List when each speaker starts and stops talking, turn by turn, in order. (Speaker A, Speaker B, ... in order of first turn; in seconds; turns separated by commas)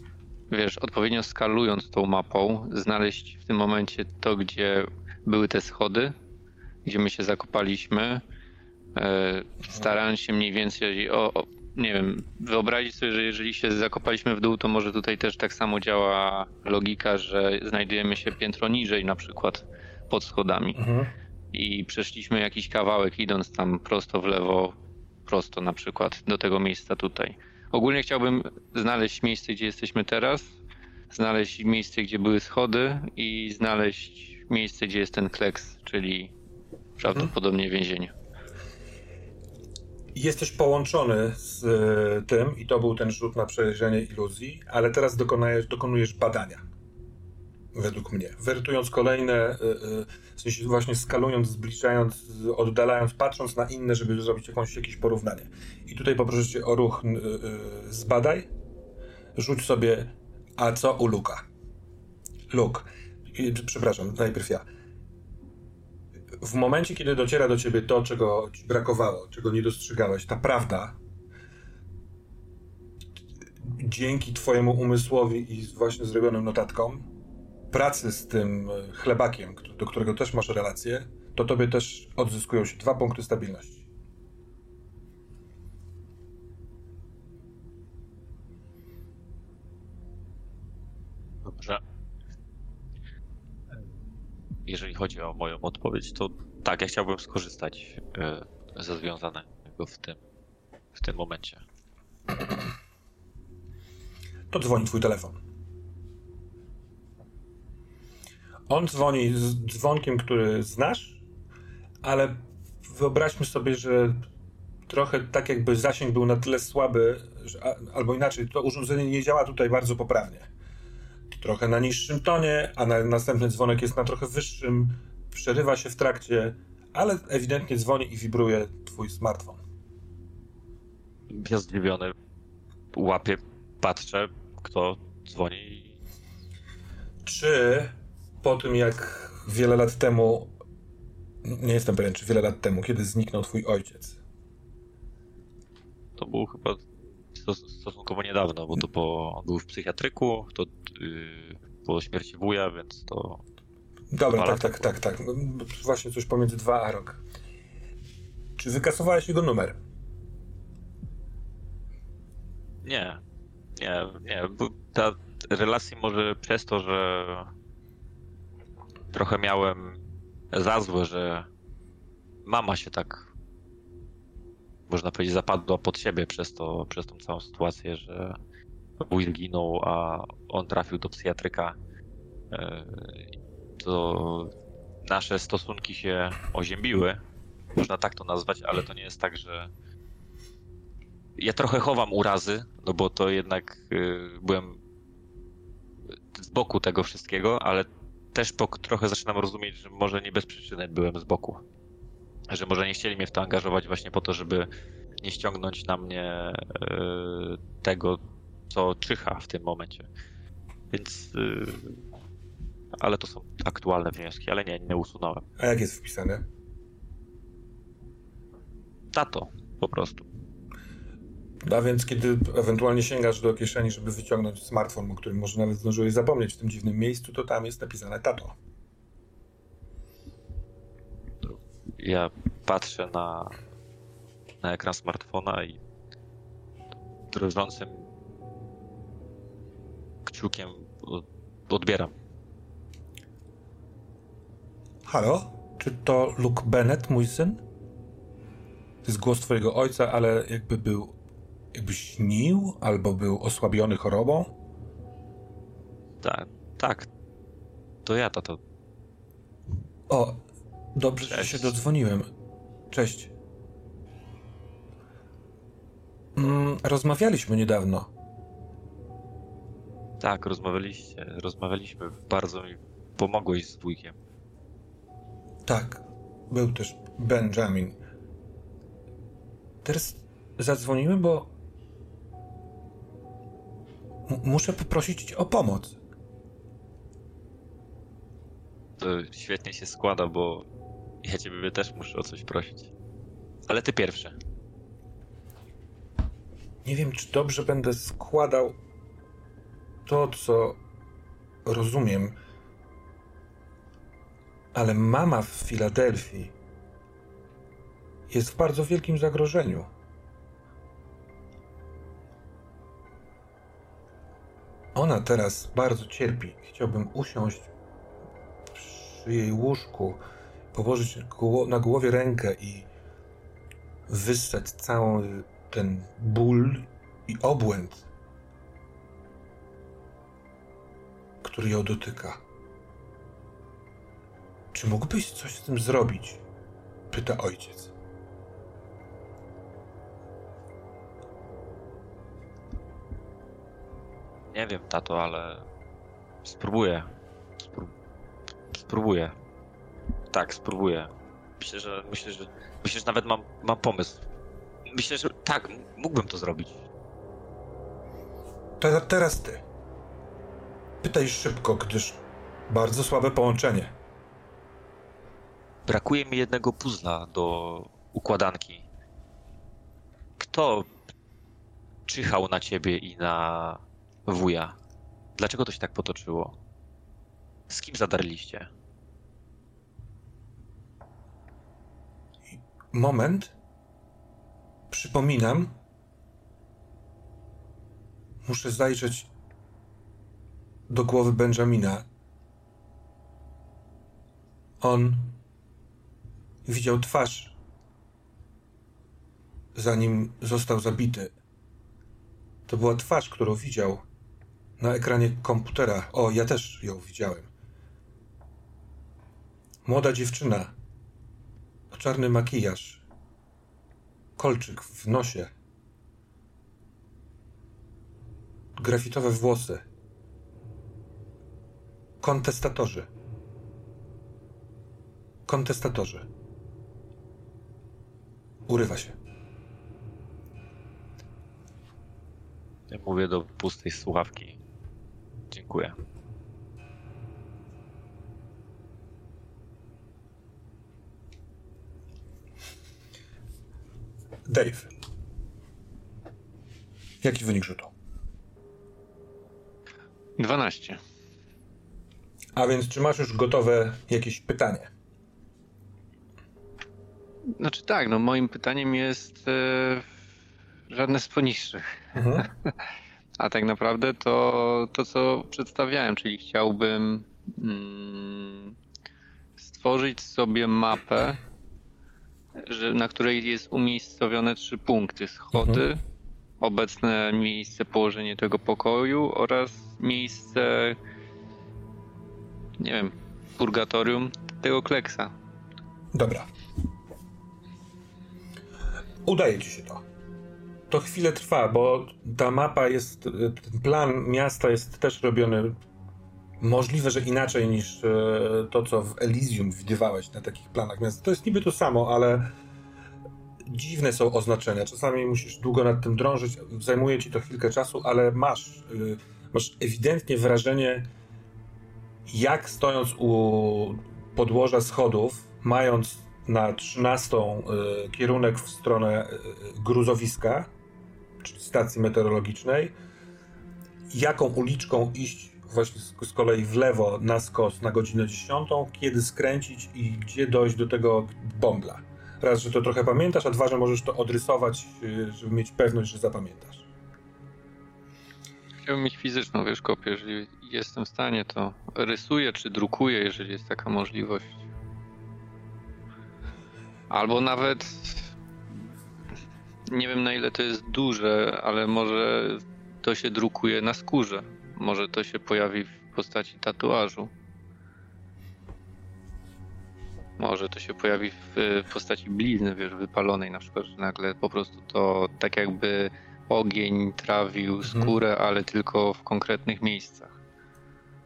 Speaker A: 0.5-6.1, Speaker A: 6.8-8.2, Speaker A: 8.9-20.8, Speaker B: 20.8-21.1, Speaker A: 21.5-24.7, Speaker A: 25.3-30.6, Speaker A: 31.1-36.3, Speaker A: 37.0-38.1, Speaker B: 40.1-46.6, Speaker B: 47.7-58.5, Speaker B: 59.4-61.4, Speaker B: 62.5-64.7, Speaker B: 66.4-71.0, Speaker B: 73.7-77.1, Speaker B: 77.7-83.9, Speaker C: 91.4-91.8, Speaker C: 94.7-100.2, Speaker C: 100.9-101.6, Speaker B: 104.5-105.4, Speaker B: 108.7-111.2, Speaker B: 112.0-114.2, Speaker B: 114.9-120.5, Speaker B: 121.3-129.6, Speaker C: 131.3-132.1, Speaker C: 132.9-135.9, Speaker B: 137.2-140.5, Speaker B: 141.4-144.2, Speaker C: 146.2-153.4, Speaker B: 154.1-157.2, Speaker C: 154.3-154.9, Speaker B: 158.6-159.8, Speaker C: 162.8-163.2, Speaker C: 163.8-167.5, Speaker C: 169.1-170.0, Speaker C: 170.5-171.5, Speaker C: 172.4-173.3, Speaker C: 174.9-178.4, Speaker C: 179.0-181.8, Speaker C: 182.5-183.3, Speaker C: 183.8-184.5, Speaker C: 185.0-187.2, Speaker C: 187.8-189.7, Speaker C: 191.4-194.8, Speaker C: 196.3-201.6, Speaker C: 202.5-204.7, Speaker C: 205.2-210.1, Speaker C: 210.9-212.0, Speaker C: 213.0-215.4, Speaker B: 215.6-216.4, Speaker C: 219.1-220.3, Speaker B: 221.7-228.6, Speaker C: 231.4-233.6, Speaker C: 234.6-235.8, Speaker C: 237.3-238.1, Speaker C: 240.2-242.1, Speaker B: 245.1-247.6, Speaker B: 249.1-251.2, Speaker B: 251.7-254.6, Speaker C: 256.2-257.1, Speaker C: 258.1-258.6, Speaker B: 260.1-260.4, Speaker B: 260.9-262.3, Speaker C: 261.3-261.7, Speaker B: 262.9-263.3, Speaker B: 266.4-268.1, Speaker C: 270.2-274.1, Speaker B: 275.6-278.0, Speaker B: 279.9-281.5, Speaker B: 284.3-285.9, Speaker C: 289.0-290.6, Speaker C: 291.2-292.9, Speaker C: 293.7-294.4, Speaker B: 296.9-298.7, Speaker B: 300.1-300.8, Speaker B: 301.6-302.4, Speaker B: 304.7-306.5, Speaker B: 308.3-309.9, Speaker B: 314.9-317.7, Speaker B: 318.7-320.2, Speaker B: 320.7-322.9, Speaker B: 324.1-328.1, Speaker B: 331.4-332.4, Speaker B: 334.7-336.4, Speaker B: 337.1-337.9, Speaker C: 344.5-345.6, Speaker C: 346.4-347.1, Speaker C: 347.6-347.9, Speaker C: 348.7-349.4, Speaker C: 350.3-354.2, Speaker C: 354.9-356.8, Speaker B: 358.8-359.6, Speaker B: 361.0-363.9, Speaker C: 365.9-368.9, Speaker C: 370.4-370.9, Speaker C: 372.1-374.8, Speaker C: 375.4-376.6, Speaker C: 377.7-378.7, Speaker B: 382.5-383.5, Speaker B: 384.9-385.7, Speaker B: 388.4-389.3, Speaker B: 390.9-392.1, Speaker B: 394.8-395.4, Speaker B: 396.6-397.6, Speaker B: 399.7-401.3, Speaker B: 402.7-404.0, Speaker B: 404.8-407.5, Speaker B: 409.9-410.7, Speaker B: 411.9-413.0, Speaker B: 414.4-415.5, Speaker B: 418.8-419.9, Speaker B: 422.2-423.1, Speaker B: 425.5-426.3, Speaker B: 428.7-429.1, Speaker C: 432.9-434.6, Speaker C: 435.5-435.9, Speaker B: 444.5-444.9, Speaker B: 447.2-447.9, Speaker A: 450.4-451.0, Speaker B: 452.6-454.9, Speaker A: 457.6-460.1, Speaker A: 460.9-461.9, Speaker B: 462.1-462.5, Speaker A: 463.4-468.7, Speaker A: 469.6-471.4, Speaker A: 472.6-476.0, Speaker B: 475.6-475.8, Speaker A: 476.6-481.0, Speaker A: 482.8-485.3, Speaker B: 486.1-486.5, Speaker B: 489.2-490.0, Speaker B: 490.9-495.8, Speaker B: 496.6-502.5, Speaker B: 503.6-511.1, Speaker B: 512.3-520.7, Speaker B: 521.4-522.9, Speaker B: 524.1-536.9, Speaker A: 538.8-544.6, Speaker A: 547.1-548.3, Speaker A: 549.9-557.3, Speaker A: 560.4-570.4, Speaker B: 567.8-568.1